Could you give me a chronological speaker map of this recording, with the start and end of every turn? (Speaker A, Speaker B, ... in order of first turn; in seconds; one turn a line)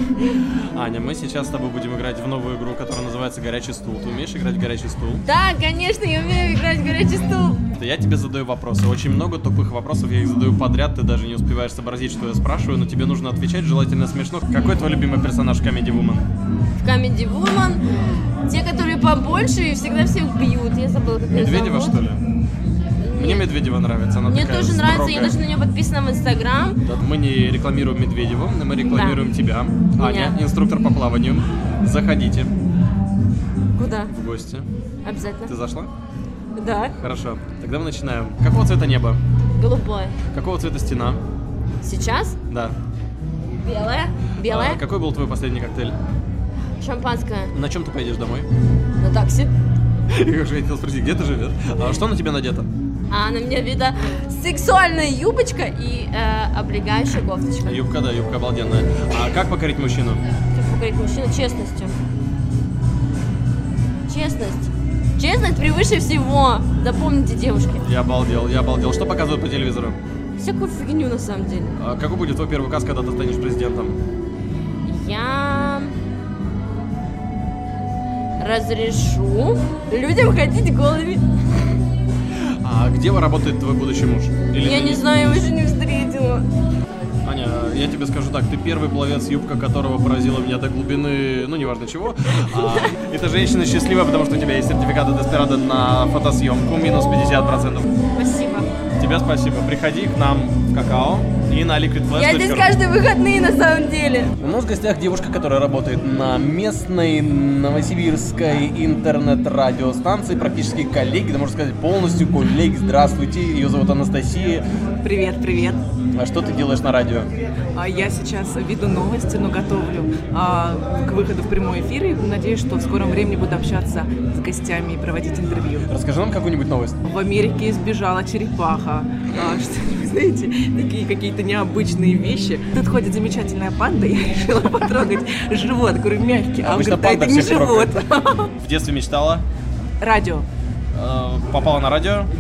Speaker A: 0.8-5.2
Speaker B: 5.2-7.6
Speaker A: 7.8-16.3
Speaker B: 16.8-17.8
Speaker B: 18.4-22.0
Speaker A: 21.3-22.2
Speaker B: 23.0-23.5
Speaker A: 23.1-25.4
Speaker B: 24.3-26.8
Speaker A: 26.8-32.5
Speaker B: 28.9-29.2
Speaker B: 29.9-30.4
Speaker B: 33.8-34.1
Speaker A: 34.1-34.7
Speaker B: 35.0-35.5
Speaker A: 35.5-35.9
Speaker B: 36.5-36.9
Speaker A: 37.0-39.2
Speaker B: 39.6-40.1
Speaker A: 40.3-41.2
Speaker B: 41.8-42.4
Speaker A: 42.5-42.8
Speaker B: 43.6-44.8
Speaker A: 44.4-46.0
Speaker B: 46.8-47.5
Speaker A: 47.5-48.5
Speaker B: 49.0-49.5
Speaker A: 50.1-52.7
Speaker B: 53.1-57.8
Speaker A: 57.7-60.2
Speaker B: 60.5-62.0
Speaker B: 64.1-67.8
Speaker A: 67.8-70.0
Speaker B: 70.4-71.8
Speaker A: 71.8-74.0
Speaker B: 74.9-75.9
Speaker B: 78.4-81.2
Speaker A: 82.6-85.5
Speaker B: 84.6-86.5
Speaker A: 87.2-97.9
Speaker B: 98.2-98.7
Speaker A: 99.0-102.7
Speaker B: 102.1-104.3
Speaker A: 104.4-114.7
Speaker C: 115.0-115.8
Speaker A: 116.1-117.3
Speaker C: 117.8-125.9
Speaker A: 125.9-127.0
Speaker C: 127.0-138.5
Speaker A: 136.6-138.0
Speaker A: 138.6-139.4
Speaker C: 140.0-140.5
Speaker A: 140.9-142.3